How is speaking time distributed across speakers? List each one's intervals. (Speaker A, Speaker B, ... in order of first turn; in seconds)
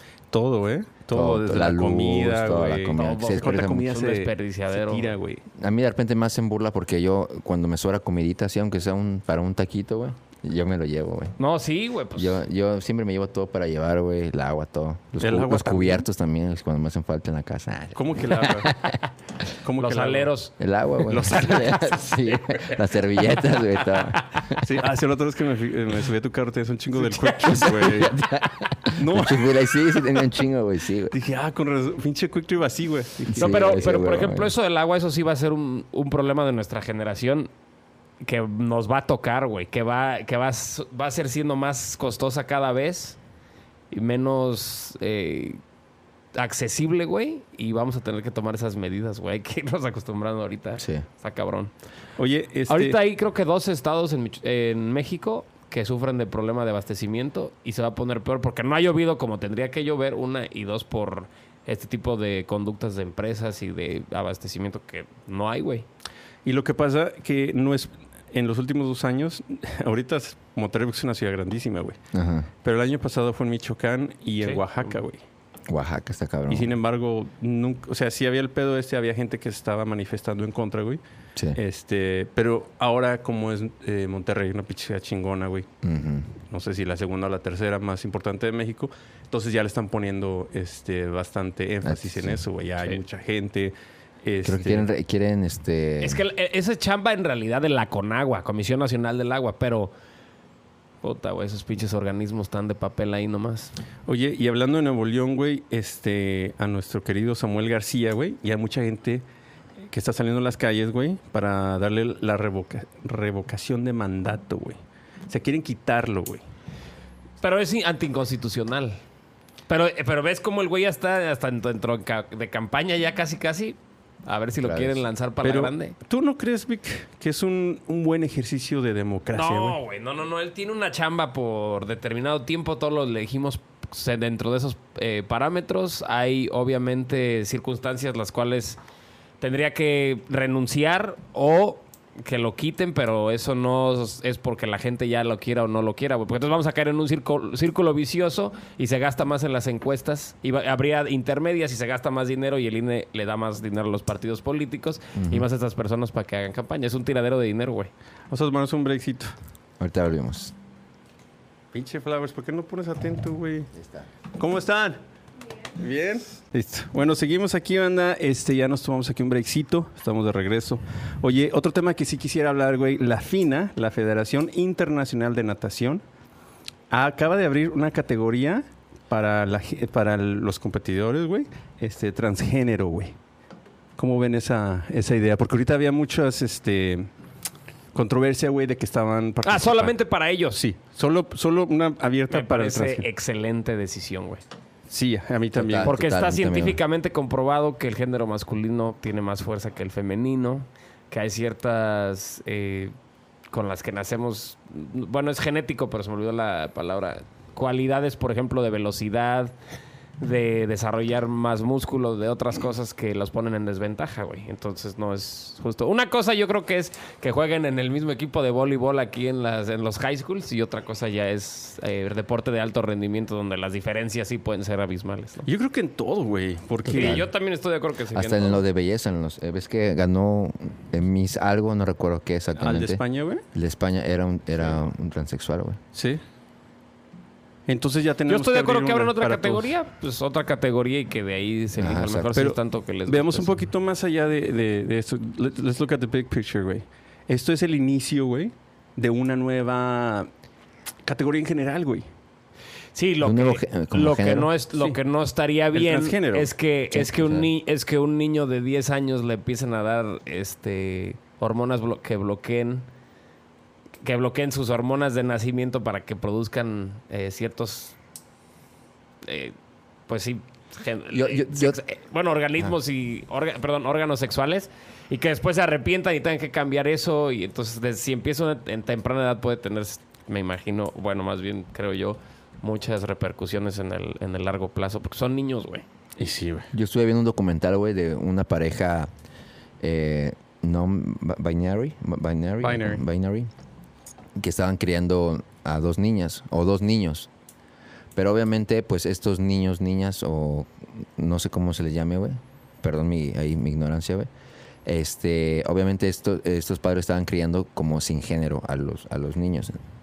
Speaker A: 0.3-5.4, 15.2-16.1, 17.9-18.7, 19.6-20.3, 21.1-21.9, 24.6-28.2, 28.9-29.6, 31.1-33.8, 52.2-53.0, 66.4-72.0, 72.6-75.2, 76.5-81.0, 81.5-85.7, 86.5-94.9, 104.1-109.2, 109.9-116.4, 125.4-129.8, 158.3-159.3, 161.7-163.7, 164.4-165.0, 165.7-176.0, 176.9-183.2, 184.0-187.1, 187.9-189.9, 190.5-193.1, 194.9-195.9, 225.4-227.2, 232.6-233.4, 235.9-236.2, 237.7-239.7, 242.3-250.3, 251.0-252.1, 255.7-256.5, 286.2-286.7, 292.6-293.0
Speaker B: 1.1-3.8, 5.5-11.3, 12.1-19.0, 20.6-24.6, 27.5-31.1, 33.3-34.5, 50.8-51.0, 72.1-72.5, 75.7-76.7, 85.8-86.3, 91.8-92.4, 94.4-96.2, 124.6-125.0, 155.1-155.4, 159.8-160.5, 163.7-164.1, 195.5-196.8, 226.9-227.3, 228.1-233.0, 233.5-235.8, 241.8-242.3, 253.2-254.5, 256.9-257.5, 271.1-271.8, 286.7-289.1, 289.8-293.5, 294.4-297.3, 298.1-304.3, 304.8-309.8
Speaker C: 3.0-5.1, 11.4-12.4, 19.8-20.5, 27.1-27.7, 33.4-37.5, 38.2-43.2, 43.9-45.6, 46.3-51.7, 52.7-65.8, 96.0-99.9, 101.0-103.7, 117.4-119.0, 119.7-126.0, 129.3-138.8, 139.4-157.9, 189.4-190.6, 192.3-194.4, 195.8-202.9, 203.5-209.5, 210.2-225.5, 226.9-228.6, 238.3-243.5, 252.9-262.9, 264.0-267.9, 269.2-269.5, 270.1-285.8